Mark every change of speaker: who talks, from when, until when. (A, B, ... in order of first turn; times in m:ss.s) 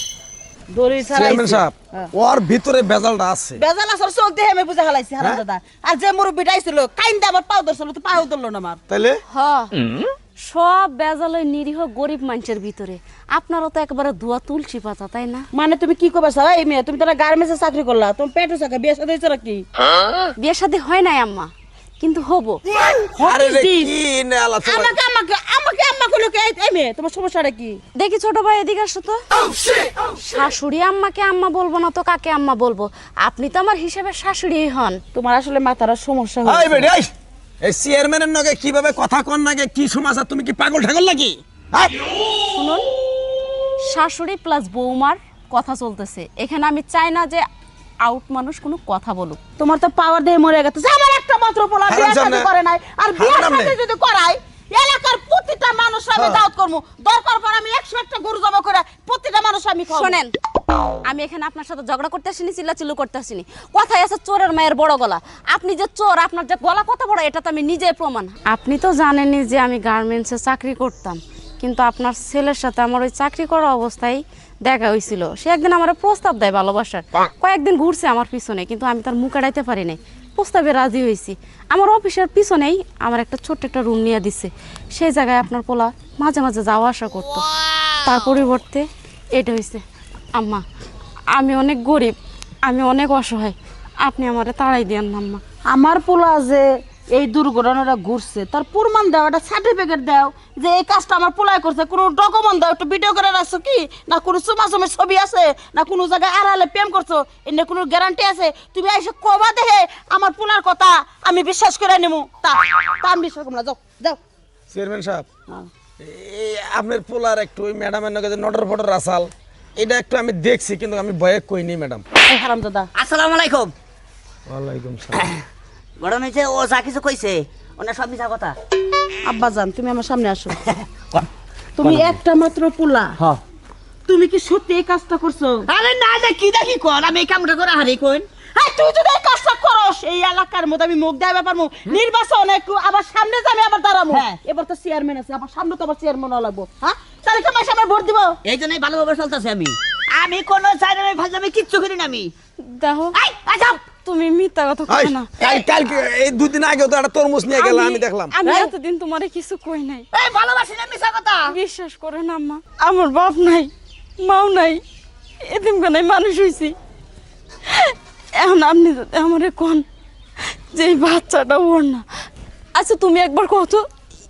0:00.7-0:02.1 A
0:01.1-0:03.6 B
0:03.6-0:08.8 A
0:08.9-0:09.2 B
0:09.3-0:09.7 C
0:10.4-0:15.4 C
0:15.5-0:19.6 A
0:20.4-0:22.6 C
0:23.0-0:23.9 A
0:23.2-0:24.9 B
0:24.6-0:27.8 A
0:27.9-0:35.0 C
0:35.1-0:36.9 A
0:36.4-0:37.1 B
0:37.6-0:42.1 B
0:42.5-0:42.8 C
0:43.8-0:47.4 C
0:48.0-0:49.4 C
0:49.6-1:00.2 A
0:51.9-0:52.5 B
0:53.2-0:53.7 B
0:56.2-0:56.4 B
0:59.9-1:00.3 C
1:01.0-1:27.5 C
1:27.5-1:27.9 D
1:28.0-1:30.6 C
1:31.3-1:35.4 C
1:35.7-1:54.2 A
1:54.7-1:55.3 B
1:56.0-2:02.0 B
2:02.2-2:02.9 A
2:02.9-2:03.7 D
2:04.5-2:05.3 B
2:06.0-2:08.6 D
2:09.2-2:10.6 A
2:10.6-2:11.3 D
2:11.8-2:13.2 A
2:14.1-2:15.7 A
2:15.7-2:18.2 D
2:18.5-2:28.4 A
2:24.1-2:24.4 D
2:28.4-2:32.3 D
2:32.6-2:33.2 C
2:33.1-2:33.9 D
2:34.0-2:35.3 C
2:34.9-2:38.3 B
2:35.4-2:35.7 D
2:37.5-2:40.1 C
2:38.4-2:38.7 D
2:40.1-2:41.6 D
2:41.4-2:44.8 C
2:45.4-2:46.8 C
2:47.7-2:49.8 C
2:50.7-2:52.0 C
2:52.7-2:53.8 C